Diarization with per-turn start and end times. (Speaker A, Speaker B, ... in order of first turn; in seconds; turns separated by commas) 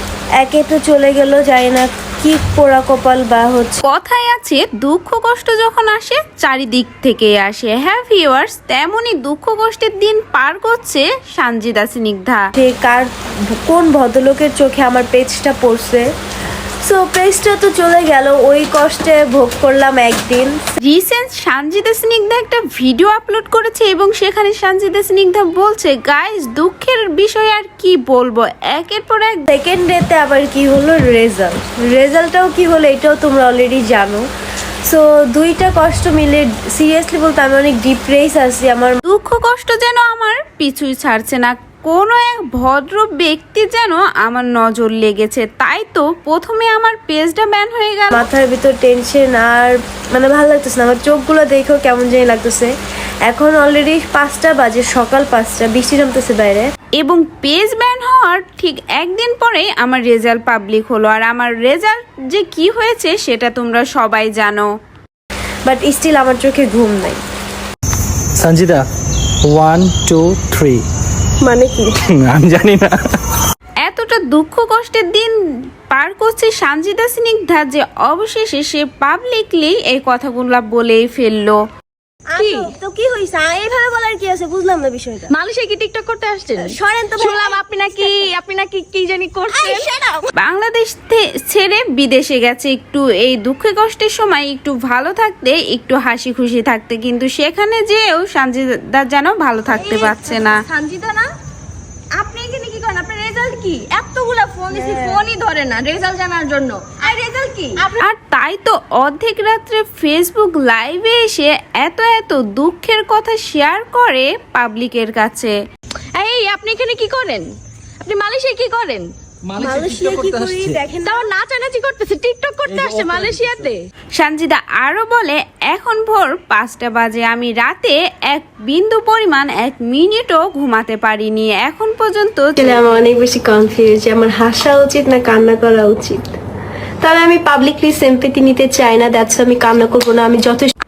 Speaker A: 0.4-3.8, Speaker B: 3.8-12.5, Speaker A: 12.6-13.1, Speaker A: 13.7-16.1, Speaker A: 16.9-20.6, Speaker B: 20.8-29.4, Speaker A: 29.5-34.2, Speaker A: 34.9-39.0, Speaker B: 39.0-48.3, Speaker A: 48.1-52.7, Speaker A: 53.3-56.7, Speaker B: 57.0-64.7, Speaker A: 65.7-67.2, Speaker C: 68.3-68.8, Speaker C: 69.5-70.8, Speaker A: 71.4-72.0, Speaker C: 72.1-73.2, Speaker B: 73.8-75.3, Speaker B: 75.9-81.6, Speaker A: 82.3-85.3, Speaker D: 82.4-82.7, Speaker D: 85.3-89.9, Speaker A: 86.6-88.3, Speaker A: 89.5-90.2, Speaker B: 90.4-100.6, Speaker D: 99.7-101.3, Speaker D: 102.1-108.0, Speaker A: 104.7-105.2, Speaker B: 108.0-115.5, Speaker D: 116.2-117.5, Speaker D: 118.0-119.0, Speaker C: 119.5-120.8, Speaker A: 119.6-121.3, Speaker D: 121.0-123.8, Speaker C: 122.7-123.7, Speaker B: 124.2-132.8, Speaker A: 132.6-136.2, Speaker A: 137.0-140.7